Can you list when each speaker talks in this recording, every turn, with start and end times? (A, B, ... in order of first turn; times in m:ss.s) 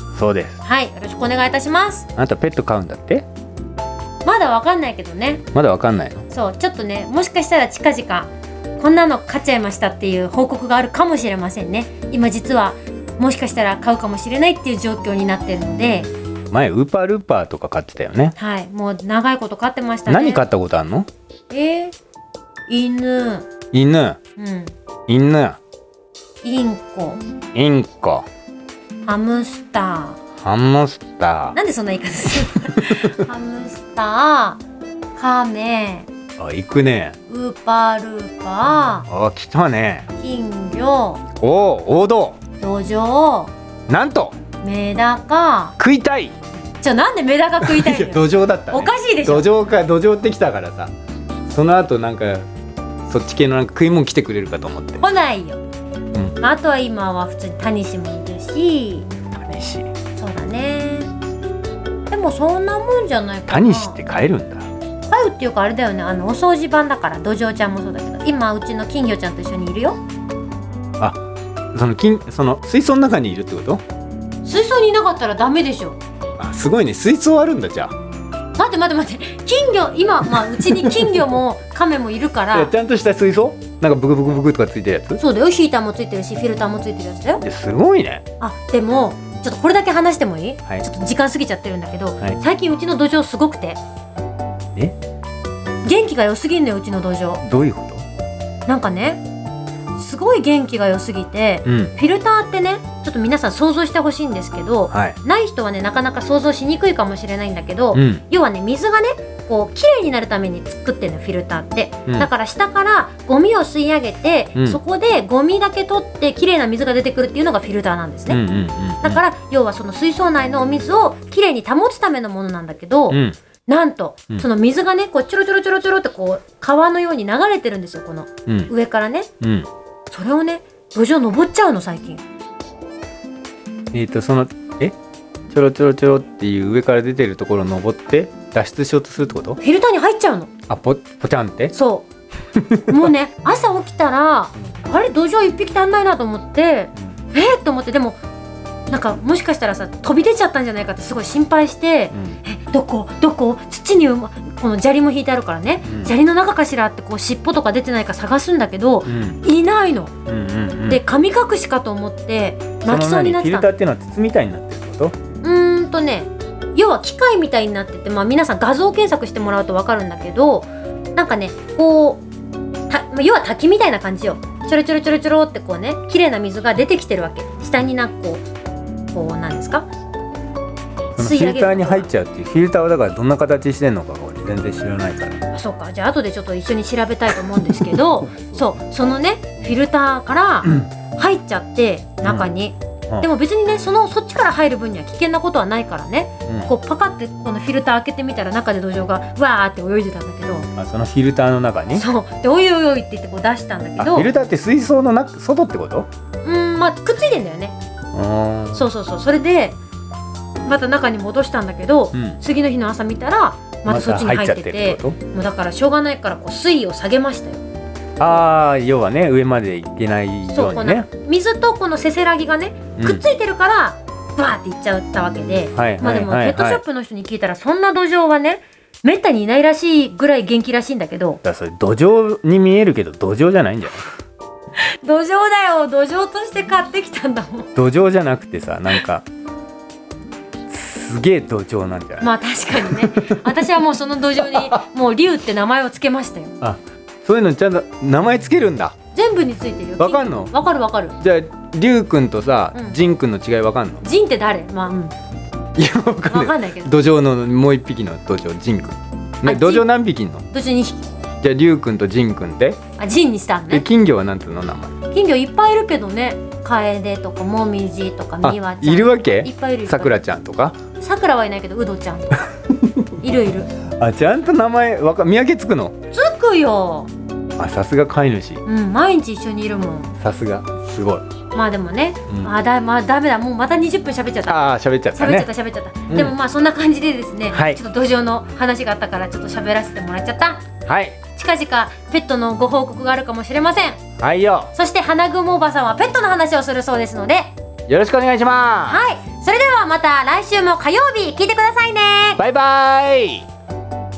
0:00.2-0:00.6 A
0:00.6-0:02.1 B
0:02.2-0:03.2 A
0:04.2-0:05.4 B
0:05.5-0:06.2 A
0:06.3-0:16.1 B
0:16.5-0:18.3 A
0:18.4-0:20.4 B
0:20.1-0:21.1 A
0:21.5-0:21.9 B
0:22.7-0:23.5 B
0:23.7-0:24.2 A
0:24.4-0:24.7 B
0:25.1-0:25.6 A
0:26.4-0:27.2 B
0:27.5-0:28.2 A
0:29.0-0:30.2 B
0:30.4-0:31.6 A
0:31.5-0:34.6 B
0:32.6-0:33.2 A
0:35.2-0:36.1 B
0:36.4-0:37.2 A
0:37.3-0:39.0 B
0:39.1-0:40.1 A
0:40.2-0:41.2 B
0:41.4-0:42.4 A
0:42.6-0:43.5 B
0:43.9-0:44.4 A
0:44.6-0:45.7 B
0:45.8-0:46.4 A
0:46.8-0:49.5 B
0:47.6-0:50.9 A
0:51.5-0:52.5 A
0:53.1-0:55.0 A
0:55.0-0:55.6 B
0:56.4-0:59.1 B
0:59.3-0:59.9 A
1:00.2-1:01.1 B
1:02.1-1:04.0 B
1:03.5-1:04.7 A
1:05.1-1:10.0 B
1:11.7-1:13.8 A
1:14.4-1:16.0 B
1:16.4-1:17.9 A
1:18.6-1:22.7 B
1:20.3-1:21.3 A
1:22.5-1:25.2 A
1:25.2-1:27.4 B
1:27.4-1:28.2 A
1:28.4-1:33.8 B
1:35.8-1:37.4 B
1:37.4-1:38.0 A
1:38.6-1:39.2 B
1:39.9-1:58.4 B
1:41.6-1:41.9 A
1:44.9-1:45.2 A
1:47.9-1:48.2 A
1:54.5-1:54.8 A
1:58.3-1:59.2 A
1:59.0-2:09.3 B
2:03.1-2:03.4 A
2:09.4-2:09.7 A
2:10.1-2:12.2 B
2:13.9-2:14.9 A
2:15.5-2:19.6 A
2:19.6-2:20.5 B
2:20.7-2:21.7 A
2:21.7-2:22.1 B
2:22.5-2:23.1 A
2:22.9-2:28.2 B
2:28.9-2:40.1 B
2:32.1-2:32.4 A
2:35.8-2:36.1 A
2:39.0-2:39.4 A
2:40.3-2:41.0 A
2:40.9-2:43.7 B
2:42.8-2:45.1 A
2:45.4-2:52.2 B
2:52.9-2:58.4 B
2:59.1-2:59.9 B
3:01.1-3:05.4 A
3:01.2-3:02.1 B
3:05.5-3:20.7 B
3:07.5-3:08.8 A
3:12.2-3:12.5 A
3:16.4-3:16.7 A
3:20.8-3:22.0 A
3:21.9-3:24.3 B
3:24.0-3:26.1 A
3:26.4-3:27.7 B
3:28.1-3:28.9 A
3:28.7-3:29.8 B
3:30.6-3:37.6 B
3:32.1-3:32.4 A
3:33.8-3:35.2 A
3:38.2-3:41.1 A
3:40.5-3:51.4 B
3:43.0-3:43.2 A
3:45.7-3:46.8 A
3:51.4-3:54.1 A
3:54.8-3:57.7 B
3:57.8-3:59.2 A
4:00.7-4:03.7 A
4:02.2-4:06.6 B
4:04.4-4:04.8 A
4:06.6-4:08.9 A
4:09.1-4:11.2 B
4:10.0-4:10.5 A
4:11.2-4:14.0 A
4:14.0-4:15.1 B
4:15.8-4:20.5 A
4:16.3-4:16.9 B
4:19.4-4:19.8 B
4:20.5-4:21.0 B
4:21.4-4:22.8 A
4:23.0-4:23.8 B
4:23.7-4:24.9 A
4:25.1-4:30.2 B
4:28.4-4:30.8 A
4:31.0-4:32.5 B
4:32.7-4:33.4 A
4:33.2-4:33.7 B
4:34.0-4:35.9 A
4:36.1-4:37.1 B
4:37.6-4:38.6 A
4:38.6-4:40.1 B
4:40.2-4:41.2 A
4:41.5-4:44.6 B
4:44.4-4:45.5 A
4:45.2-4:50.6 B
4:46.1-4:46.4 A
4:47.5-4:47.8 A
4:50.8-4:51.2 A
4:51.3-4:54.0 B
4:54.2-4:54.7 A
4:54.7-4:57.5 B
4:57.9-4:59.0 A
4:58.8-5:02.4 B
5:02.4-5:03.5 A